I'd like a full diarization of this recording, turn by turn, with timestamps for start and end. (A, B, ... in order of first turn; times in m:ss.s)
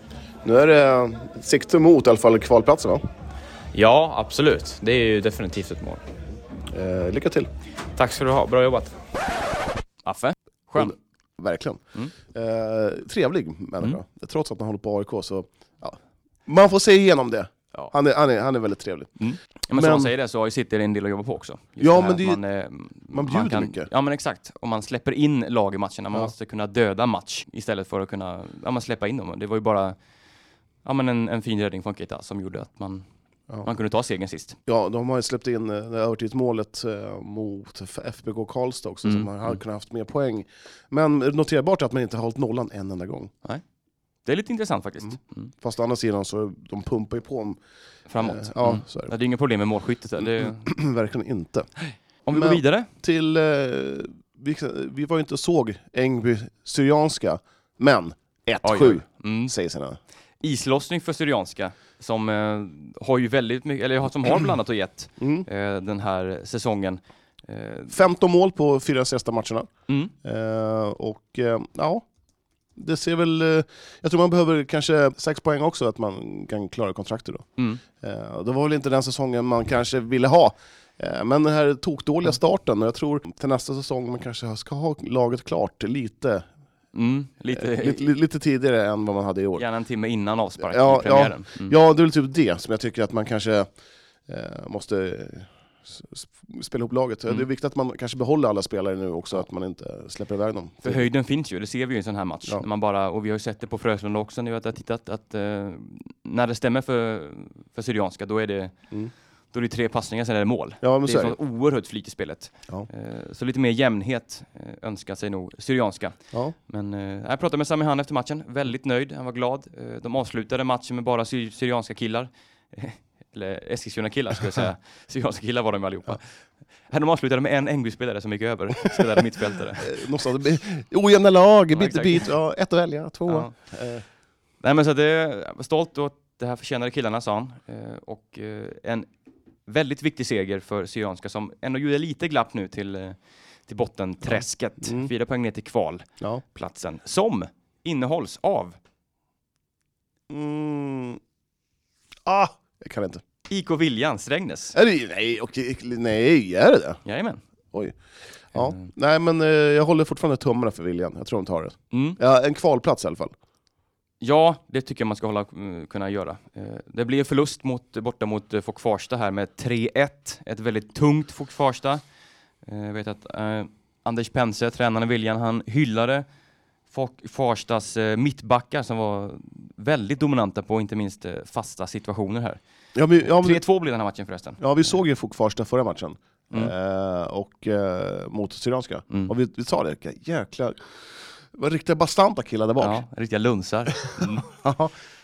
0:00.4-0:03.0 A
0:03.7-0:06.0 B
0:06.7-0:07.5 A
0:08.0-0:09.0 B
0:10.0-0:11.0 C
0:10.8-0:19.1 A
0:19.2-0:30.0 C
0:19.7-0:20.1 A
0:21.8-0:22.4 A
0:23.1-0:23.9 A
0:30.8-0:33.0 C
0:33.6-0:34.6 C
0:34.7-0:43.3 A
0:39.0-0:39.6 C
0:44.3-0:45.5 C
0:45.0-0:47.6 A
0:48.1-0:50.6 C
0:48.2-0:49.1 A
0:50.2-0:51.7 A
0:51.8-0:52.9 C
0:52.3-1:00.0 A
0:58.6-0:59.5 C
1:00.4-1:08.0 C
1:05.2-1:05.5 A
1:07.9-1:09.7 A
1:09.9-1:10.1 C
1:10.2-1:12.0 A
1:12.8-1:26.5 A
1:17.6-1:17.8 C
1:26.9-1:28.1 C
1:27.5-1:29.6 A
1:29.6-1:31.8 C
1:30.7-1:33.7 A
1:34.3-1:41.1 A
1:40.8-1:48.8 C
1:49.5-2:06.2 C
1:50.8-1:51.4 A
2:06.9-2:10.0 C
2:09.8-2:14.0 A
2:11.7-2:12.3 C
2:13.3-2:13.5 C
2:14.6-2:19.1 C
2:19.7-2:28.8 C
2:24.2-2:25.1 A
2:30.3-2:31.2 A
2:32.3-2:33.2 A
2:33.5-2:34.8 C
2:34.7-2:37.0 A
2:37.0-2:37.4 C
2:38.5-2:43.3 A
2:38.6-2:38.9 C
2:41.9-2:42.2 C
2:44.2-2:52.0 C
2:52.6-2:56.2 C
2:56.9-3:02.6 C
3:03.0-3:03.6 A
3:03.2-3:04.6 C
3:04.6-3:10.8 A
3:11.5-3:13.0 A
3:12.8-3:14.5 C
3:14.1-3:14.9 A